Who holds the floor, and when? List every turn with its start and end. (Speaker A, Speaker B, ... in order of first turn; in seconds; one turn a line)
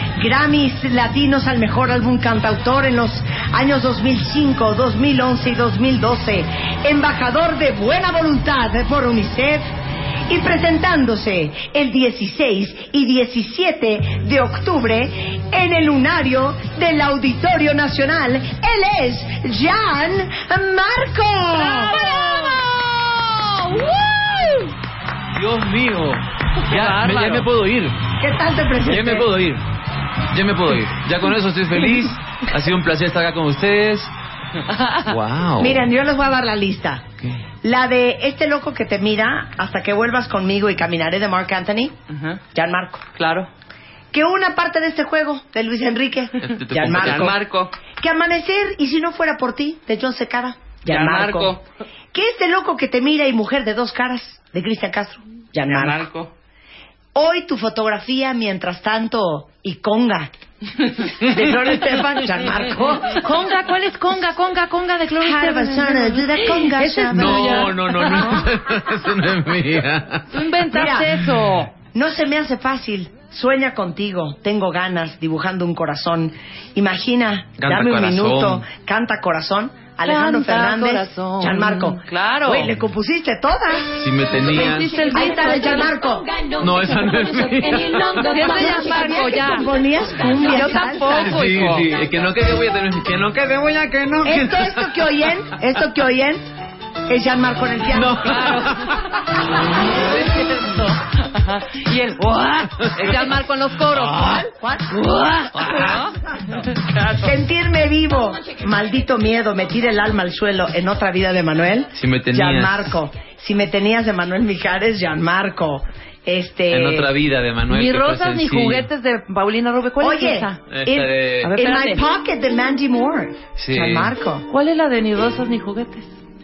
Speaker A: 0.2-9.7
Speaker A: 10.3-22.6
Speaker B: 21.6-24.7
Speaker C: 25.4-28.0
Speaker B: 26.6-27.5
Speaker A: 28.2-29.3
Speaker C: 28.9-29.6
Speaker C: 30.3-34.1
Speaker B: 34.6-35.1
Speaker C: 35.1-35.9
Speaker A: 35.6-37.0
Speaker A: 37.6-42.0
Speaker B: 42.1-42.4
Speaker A: 42.5-43.0
Speaker B: 43.1-43.5
Speaker A: 44.1-47.4
Speaker C: 46.4-47.4
Speaker B: 46.8-47.8
Speaker A: 48.0-51.6
Speaker B: 50.9-51.6
Speaker A: 52.1-56.0
Speaker B: 55.6-56.3
Speaker A: 57.1-60.3
Speaker A: 60.9-63.2
Speaker B: 63.1-68.5
Speaker A: 65.2-67.8
Speaker C: 67.1-70.3
Speaker B: 70.3-71.7
Speaker A: 70.7-71.2
Speaker A: 71.8-86.4
Speaker C: 77.6-78.7
Speaker B: 80.0-82.7
Speaker C: 84.0-85.1
Speaker B: 84.4-86.0
Speaker C: 86.6-88.5
Speaker B: 88.2-89.7
Speaker A: 88.4-91.2
Speaker B: 90.4-91.9
Speaker C: 91.1-95.3
Speaker A: 94.2-96.4
Speaker A: 97.1-98.6
Speaker C: 97.9-99.1
Speaker B: 98.2-106.2
Speaker C: 102.8-103.2
Speaker C: 103.9-104.4
Speaker A: 104.3-104.9
Speaker C: 105.6-106.0
Speaker B: 106.8-107.3
Speaker A: 107.2-117.1
Speaker C: 112.0-113.0
Speaker C: 116.7-118.9
Speaker B: 117.7-120.6
Speaker A: 120.0-124.5
Speaker C: 120.7-121.5
Speaker B: 121.4-122.0
Speaker C: 123.6-124.1
Speaker B: 124.5-126.1